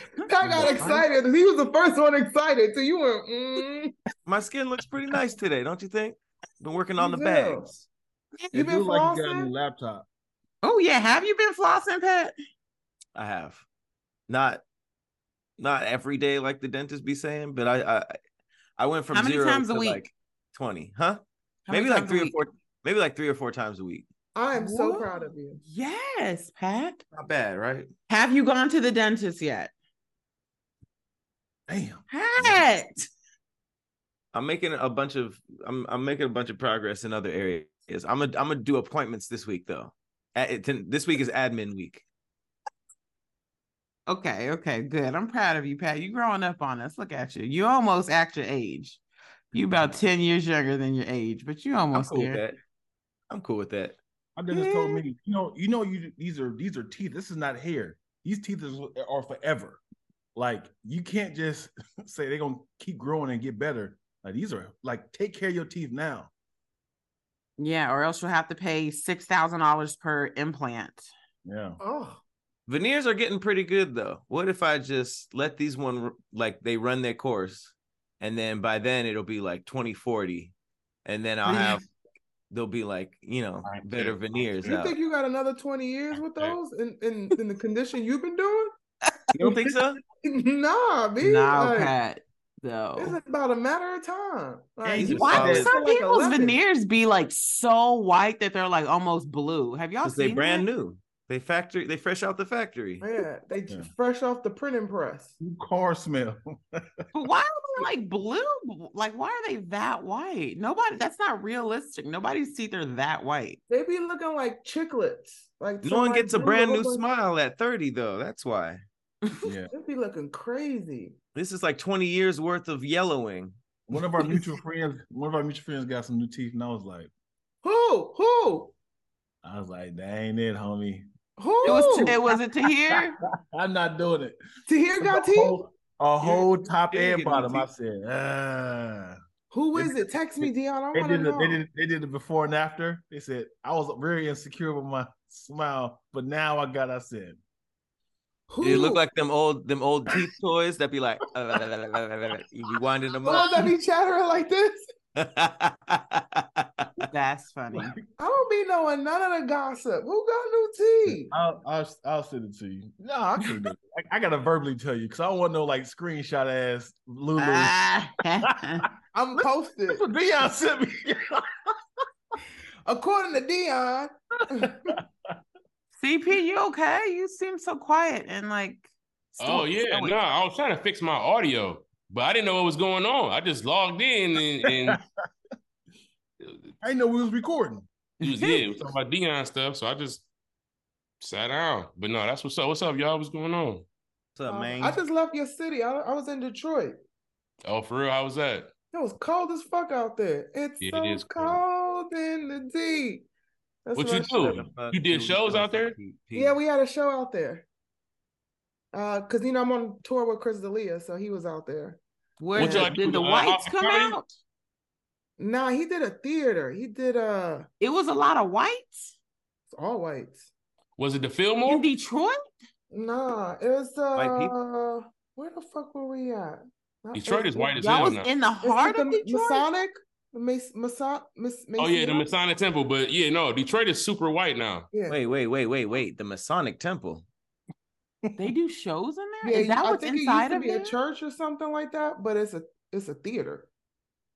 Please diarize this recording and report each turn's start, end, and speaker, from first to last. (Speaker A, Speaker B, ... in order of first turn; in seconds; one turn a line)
Speaker A: 0.2-3.9
Speaker B: 0.5-1.0
Speaker C: 0.6-1.0
Speaker B: 4.2-7.8
Speaker A: 7.0-7.7
Speaker A: 8.5-9.5
Speaker D: 8.5-10.1
Speaker C: 10.6-12.3
Speaker B: 13.1-13.7
Speaker B: 14.3-14.6
Speaker B: 15.6-18.1
Speaker B: 18.8-24.1
Speaker C: 19.1-20.0
Speaker C: 21.7-22.3
Speaker A: 24.3-25.6
Speaker C: 24.5-25.1
Speaker C: 25.6-27.0
Speaker B: 27.1-27.9
Speaker C: 28.1-29.7
Speaker D: 31.7-32.6
Speaker C: 32.1-33.1
Speaker B: 34.3-42.0
Speaker C: 44.1-49.0
Speaker C: 49.5-52.4
Speaker B: 51.9-52.5
Speaker B: 53.3-54.0
Speaker D: 54.4-59.8
Speaker C: 54.5-55.0
Speaker D: 60.3-66.3
Speaker C: 67.6-71.1
Speaker D: 71.4-71.8
Speaker A: 71.8-72.2
Speaker B: 72.7-80.5
Speaker B: 81.0-81.8
Speaker B: 82.5-84.9
Speaker E: 83.7-84.5
Speaker A: 84.6-88.7
Speaker B: 89.3-90.0
Speaker A: 90.2-91.9
Speaker C: 91.2-93.2
Speaker A: 93.0-96.6
Speaker B: 94.8-95.7
Speaker C: 95.0-100.7
Speaker D: 95.0-95.4
Speaker B: 100.0-103.0
Speaker A: 103.0-105.3
Speaker D: 105.4-106.8
Speaker C: 107.1-113.6
Speaker A: 113.7-117.0
Speaker B: 115.8-118.8
Speaker D: 119.4-119.7
Speaker A: 119.7-121.1
Speaker B: 121.3-123.6
Speaker D: 123.9-127.1
Speaker A: 127.6-128.7
Speaker D: 129.4-131.1
Speaker A: 131.4-132.2
Speaker C: 131.6-133.2
Speaker D: 133.5-134.4
Speaker A: 134.7-135.7
Speaker D: 135.0-139.2
Speaker B: 136.2-137.7
Speaker A: 139.5-141.6
Speaker D: 139.7-147.4
Speaker A: 148.5-149.0
Speaker B: 148.6-153.5
Speaker D: 152.7-153.6
Speaker A: 153.2-154.8
Speaker B: 155.2-156.9
Speaker C: 157.0-157.9
Speaker A: 158.2-161.3
Speaker D: 161.1-167.8
Speaker C: 167.4-168.8
Speaker A: 169.1-170.0
Speaker D: 169.4-171.4
Speaker A: 172.8-174.9
Speaker D: 174.5-175.3
Speaker C: 175.9-180.1
Speaker E: 179.4-185.0
Speaker D: 184.7-185.0
Speaker D: 186.8-187.9
Speaker E: 188.2-190.2
Speaker C: 188.2-188.7
Speaker E: 191.2-193.8
Speaker B: 194.3-195.0
Speaker A: 194.4-197.0
Speaker E: 197.6-198.7
Speaker A: 198.9-203.2
Speaker E: 200.8-201.6
Speaker A: 203.8-204.5
Speaker E: 203.9-205.9
Speaker B: 204.4-206.5
Speaker A: 206.3-207.7
Speaker A: 208.9-212.0
Speaker C: 212.4-214.3
Speaker A: 212.6-212.9
Speaker E: 212.6-214.2
Speaker A: 215.4-217.7
Speaker C: 217.8-219.1
Speaker A: 219.7-220.5
Speaker E: 221.0-221.8
Speaker C: 221.7-222.4
Speaker A: 222.9-232.2
Speaker B: 224.1-224.5
Speaker E: 227.1-228.3
Speaker C: 227.8-229.7
Speaker E: 231.8-234.9
Speaker A: 234.9-235.2
Speaker B: 235.1-237.2
Speaker C: 238.4-241.0
Speaker A: 239.4-243.7